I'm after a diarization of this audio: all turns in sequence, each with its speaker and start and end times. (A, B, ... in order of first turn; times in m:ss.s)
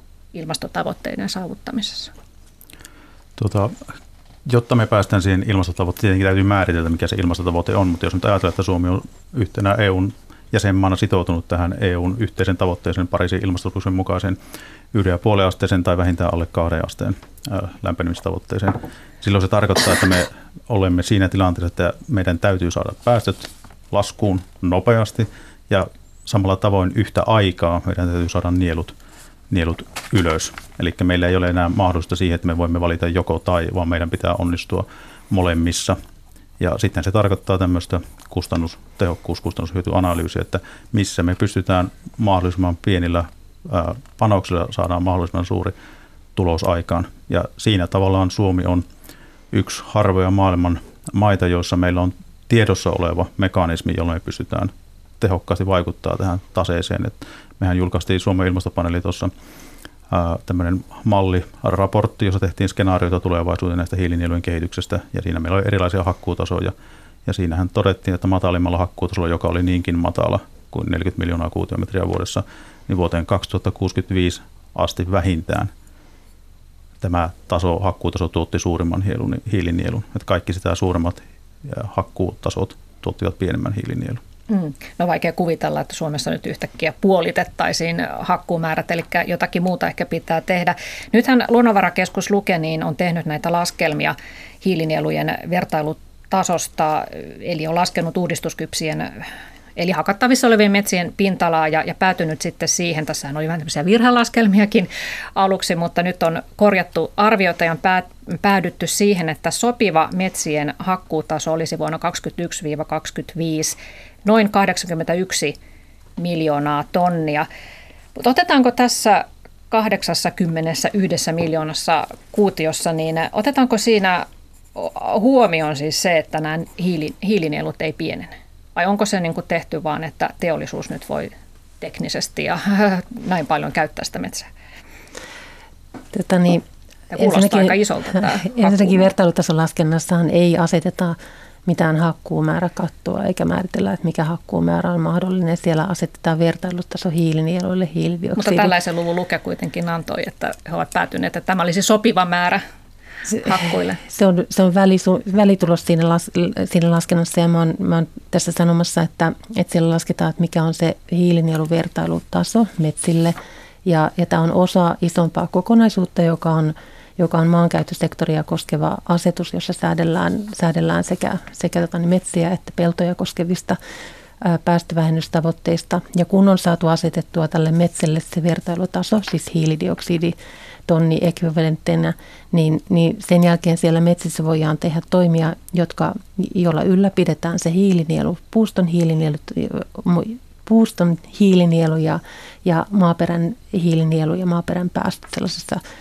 0:00.3-0:02.1 A
0:03.4-0:03.9 B
0:04.5-0:14.4 B
0:14.9-0:28.9 B
0:29.5-0:36.0 B
0:36.6-0:45.8 B
0:46.4-0:48.8 B
0:49.5-0:59.3 B
1:00.1-1:06.7 B
1:07.3-1:15.7 B
1:17.0-1:24.2 B
1:24.5-1:55.6 A
1:56.2-1:57.5 A
1:58.2-2:14.5 A
2:16.1-2:16.6 C
2:17.1-2:19.1 A
2:17.2-2:28.7 C
2:28.4-2:32.6 A
2:33.3-2:53.8 C
2:33.3-2:34.0 A
2:54.4-3:00.4 C
3:00.9-3:15.8 C